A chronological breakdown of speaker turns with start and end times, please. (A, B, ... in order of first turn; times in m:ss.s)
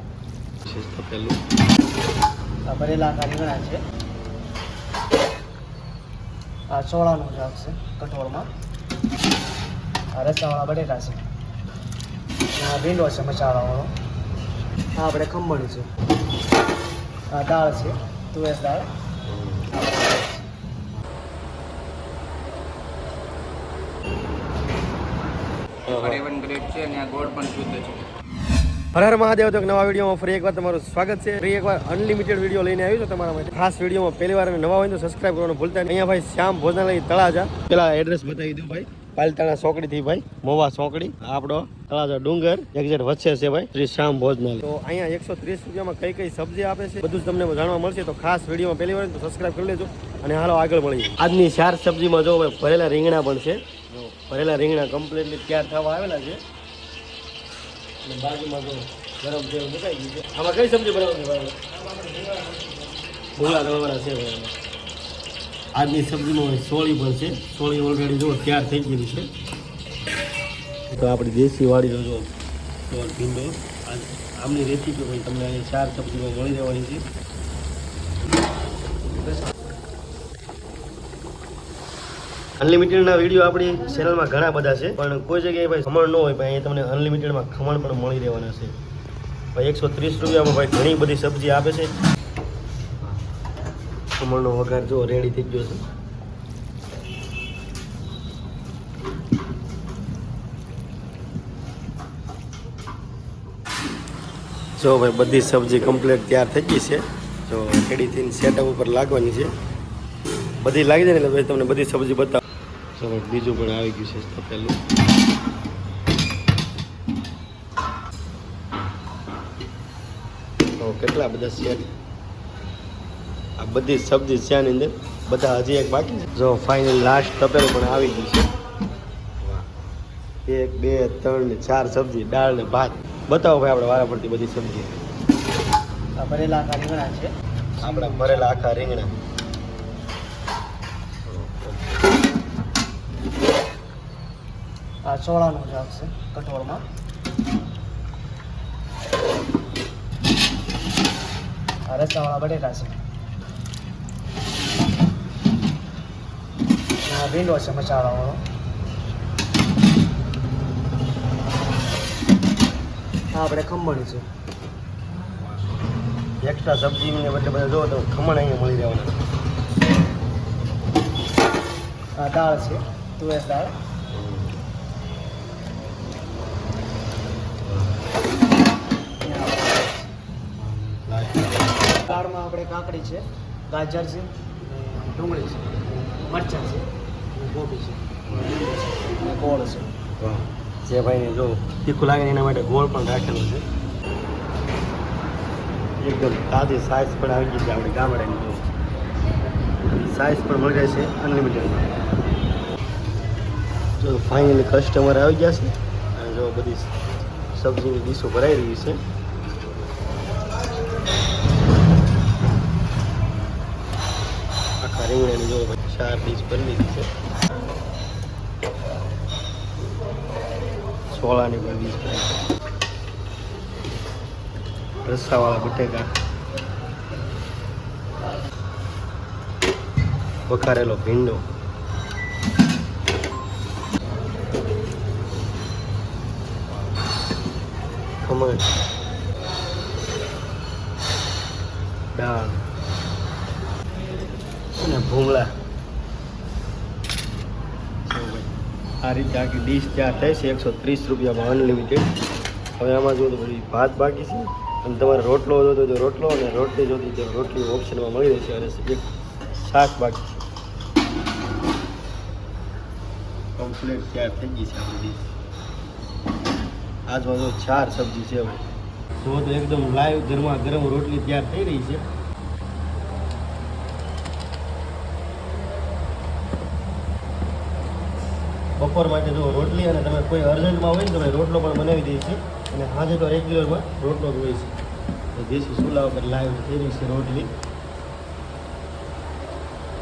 0:00.7-0:01.4 A
0:02.7-0:03.8 B
0:06.7-0:08.5 B
0:10.1-0:11.2 B
0:12.6-0:13.9 B
0:15.0-0:15.9 B
0:17.3-0:18.9 B
0:19.3-0:19.7 A
0:19.7-0:20.4 B
0:25.9-0:26.2 A
0:25.9-0:28.1 C
0:28.9-0:56.4 A
0:58.0-1:01.6 A
1:03.4-1:04.5 A
1:05.8-1:09.3 A
1:10.9-1:12.3 A
1:12.9-1:17.1 A
1:22.6-1:28.8 A
1:29.5-1:31.9 A
1:34.2-1:35.8 A
1:44.8-1:49.5 A
1:50.6-1:52.4 A
1:53.0-1:54.8 A
2:00.8-2:01.9 A
2:03.6-2:08.5 A
2:10.5-2:15.0 A
2:16.2-2:18.7 B
2:17.8-2:19.1 A
2:21.3-2:21.9 A
2:25.1-2:26.8 B
2:31.9-2:33.0 B
2:37.0-2:38.4 B
2:43.3-2:44.3 B
2:46.4-2:49.2 A
2:52.2-2:53.7 B
2:54.1-2:54.6 A
2:57.6-2:58.0 A
2:59.2-3:00.0 B
3:00.6-3:02.1 A
3:02.1-3:09.9 B
3:08.3-3:08.6 A
3:10.2-3:13.6 A
3:16.0-3:18.7 A
3:19.9-3:21.9 A
3:24.0-3:26.9 A
3:27.5-3:29.0 A
3:34.8-3:37.1 A
3:41.1-3:42.4 A
3:45.0-3:46.1 A
3:50.5-3:51.4 A
3:58.2-3:58.7 A
4:02.2-4:02.6 A
4:04.8-4:05.5 A
4:08.1-4:08.5 A
4:09.0-4:12.1 A
4:12.8-4:19.0 A
4:19.6-4:20.2 A
4:23.6-4:25.2 A
4:27.1-4:28.6 A
4:29.2-4:32.0 A
4:38.8-4:44.8 A
4:45.4-4:47.5 A